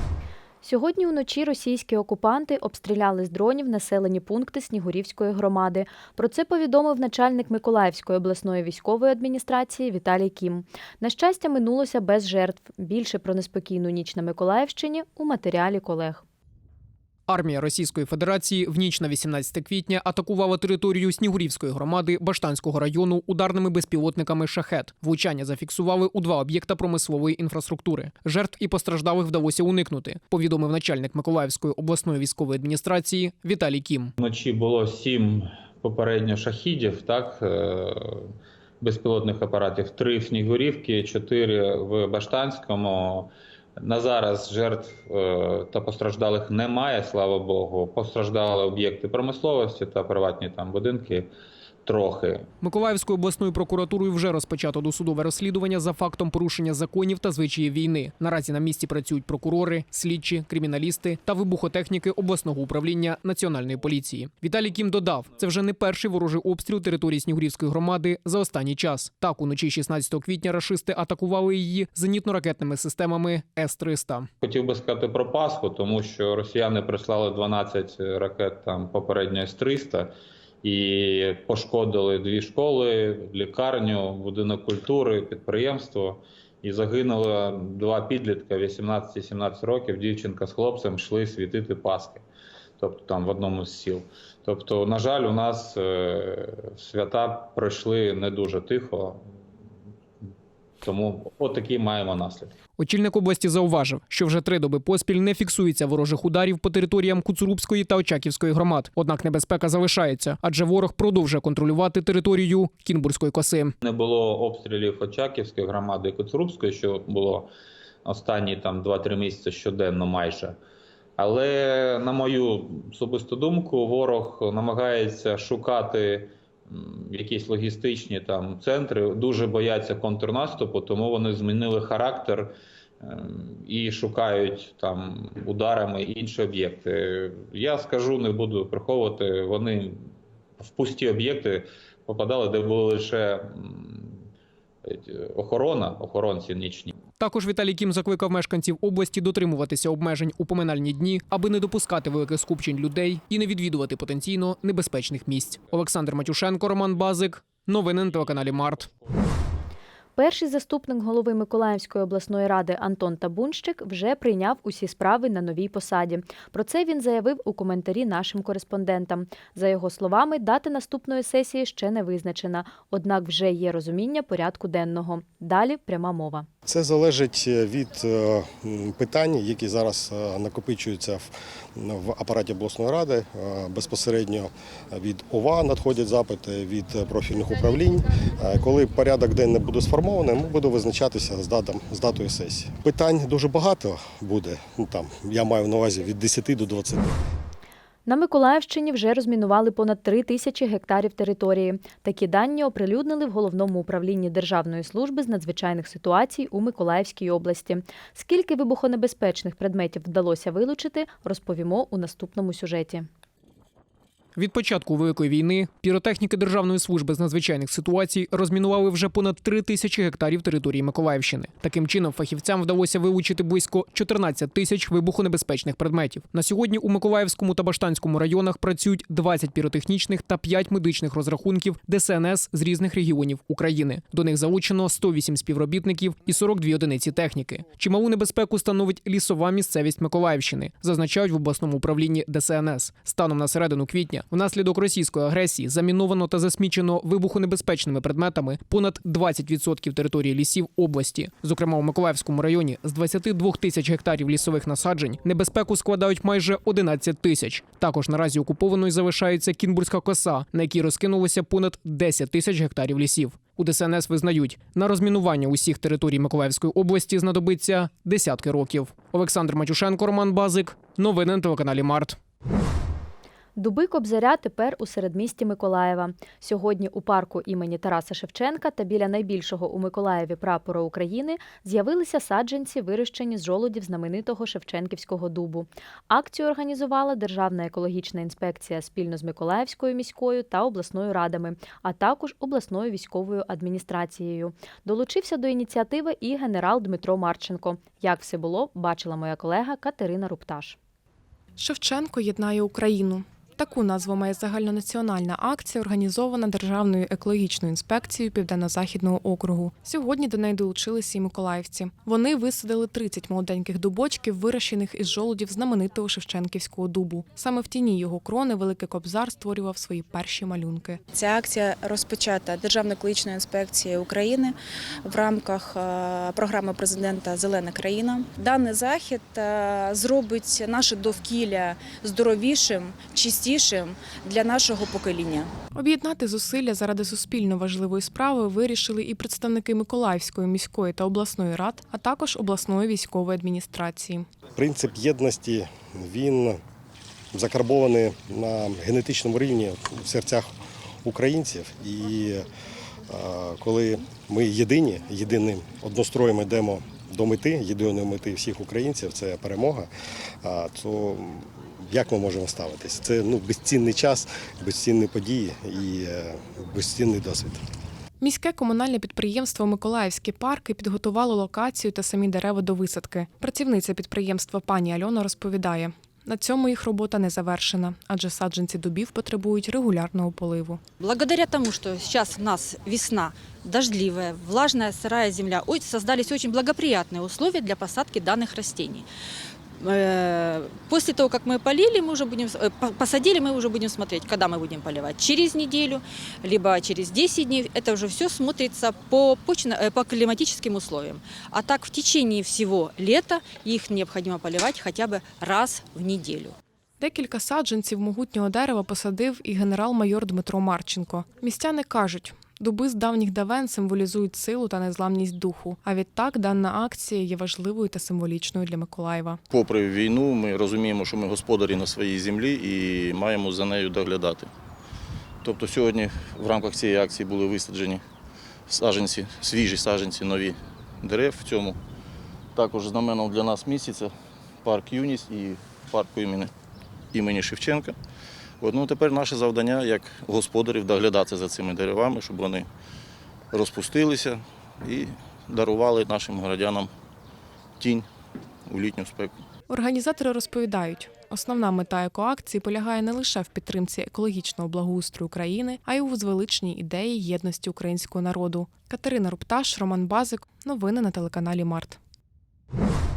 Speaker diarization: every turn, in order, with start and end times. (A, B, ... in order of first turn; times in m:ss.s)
0:00.6-0:16.2 A
0:17.3-0:34.1 B
0:34.2-0:51.3 C
0:51.8-0:52.5 C
0:52.6-1:14.3 B
1:14.4-1:20.1 C
1:20.6-1:32.2 C
1:32.8-1:39.2 C
1:40.8-1:42.5 C
1:42.8-1:53.7 B
1:53.8-1:57.5 C
1:58.0-2:00.6 C
2:01.2-2:20.0 C
2:20.6-2:24.2 C
2:24.8-2:26.9 C
2:27.2-2:38.9 B
2:40.2-2:56.5 A
2:56.6-3:17.2 D
3:18.0-3:33.1 A
3:34.4-4:32.2 B
4:33.6-5:00.8 A
5:01.6-5:21.0 E
5:21.2-5:24.5 F
5:25.1-5:35.5 F
5:35.7-5:44.3 E
5:44.6-5:46.6 D
5:47.3-5:50.5 D
5:51.0-5:52.4 D
5:53.1-5:59.9 D
6:00.4-6:07.6 D
6:08.2-6:20.8 E
6:21.0-6:29.0 G
6:29.8-6:46.5 G
6:47.0-6:59.4 E
6:59.5-7:04.4 H
7:05.4-7:08.0 H
7:08.7-7:10.5 H
7:11.0-7:11.7 H
7:12.6-7:14.1 H
7:14.6-7:16.5 H
7:17.1-7:17.9 H
7:18.6-7:22.6 H
7:23.5-7:24.3 H
7:24.9-7:26.8 H
7:28.7-7:29.2 H
7:29.7-7:42.0 E